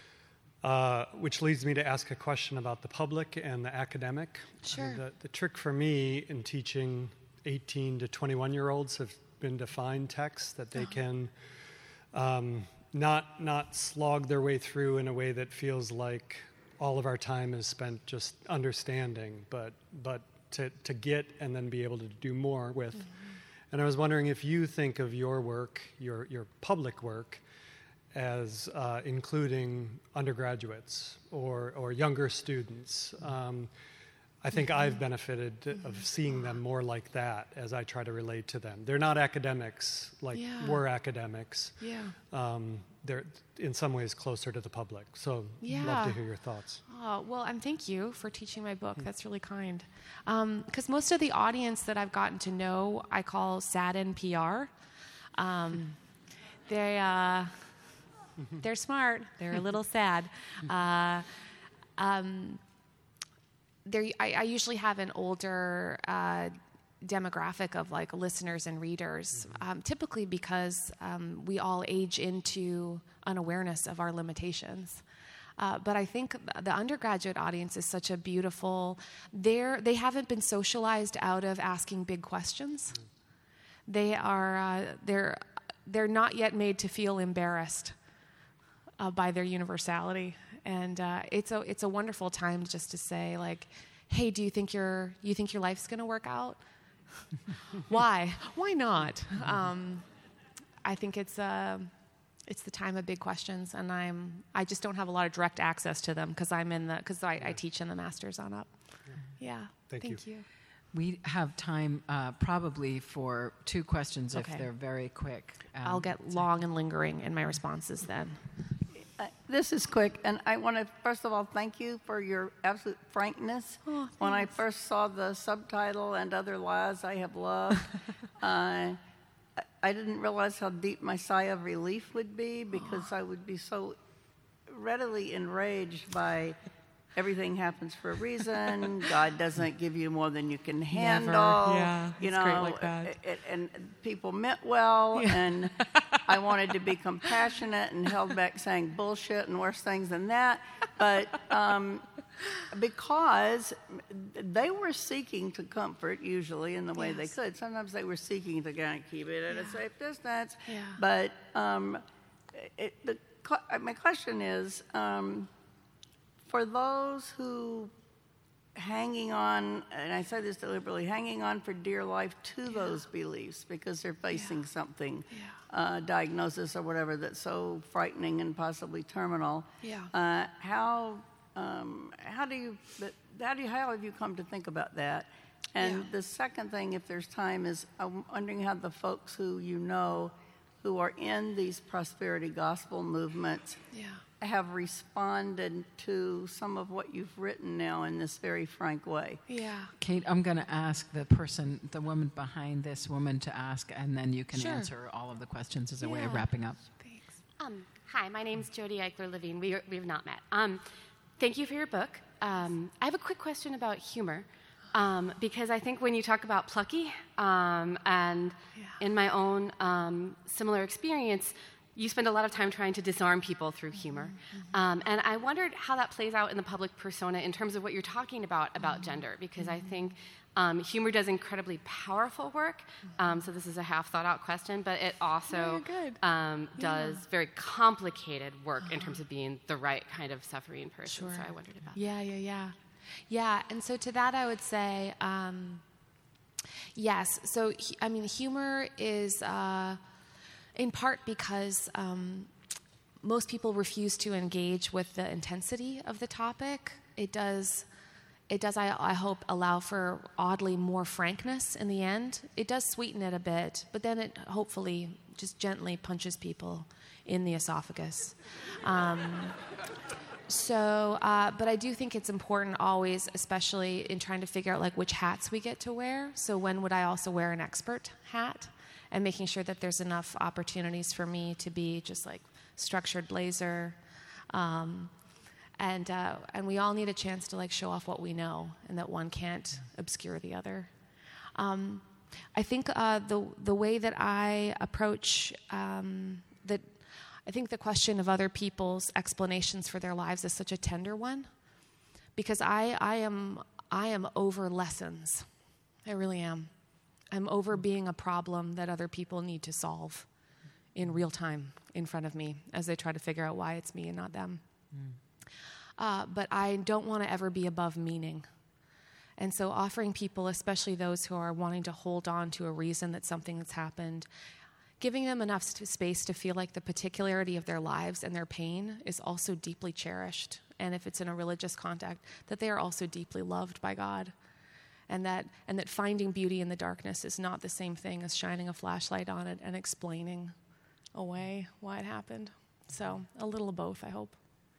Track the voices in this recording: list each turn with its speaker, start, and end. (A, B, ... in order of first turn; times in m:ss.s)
0:00.6-0:11.4 A
0:04.6-0:05.0 B
0:12.1-0:27.4 A
0:28.1-0:33.8 A
0:34.4-0:46.8 A
0:35.8-0:36.5 B
0:40.3-0:40.8 B
0:41.8-0:42.2 B
0:45.6-0:46.2 B
0:46.9-0:54.7 B
0:55.3-0:56.0 B
0:56.6-0:57.8 B
0:58.6-1:01.3 B
1:02.0-1:02.6 B
1:03.8-1:15.0 B
1:15.6-1:23.0 B
1:23.9-1:28.0 B
1:29.0-1:36.6 B
1:37.8-1:40.1 B
1:40.8-1:41.9 B
1:42.4-1:48.8 B
1:49.4-1:50.5 B
1:49.9-1:50.2 A
1:50.9-1:56.2 C
1:54.3-1:54.7 B
1:55.8-1:58.4 B
1:58.9-2:09.0 D
2:03.9-2:04.5 B
2:09.6-2:14.0 D
2:14.7-2:16.6 D
2:17.2-2:45.5 D
2:20.9-2:23.2 B
2:25.2-2:26.0 B
2:37.0-2:37.3 B
2:40.7-2:41.0 B
2:46.5-2:47.9 D
2:48.8-3:13.8 D
2:59.8-3:00.1 B
3:05.8-3:06.0 B
3:13.9-3:14.2 B
3:14.4-3:19.4 D
3:19.5-3:19.9 B
3:20.0-3:26.8 C
3:24.5-3:24.9 B
3:26.0-3:27.3 B
3:27.6-3:30.8 E
3:31.4-4:02.0 E
3:55.5-3:56.2 B
3:56.8-3:57.2 B
4:01.1-4:02.8 B
4:03.3-4:05.8 B
4:06.9-4:10.0 B
4:10.7-4:12.5 B
4:13.2-4:17.9 B
4:18.5-4:29.6 B
4:30.5-4:45.1 B
4:45.8-4:50.9 B
4:51.6-5:01.5 B
5:02.4-5:05.5 B
5:06.0-5:06.7 B
5:07.3-5:10.3 B
5:11.0-5:14.6 B
5:14.9-5:15.2 C
5:16.0-5:18.5 B
5:19.4-5:24.3 B
5:25.0-5:34.3 B
5:35.1-5:40.6 B
5:41.1-5:44.4 B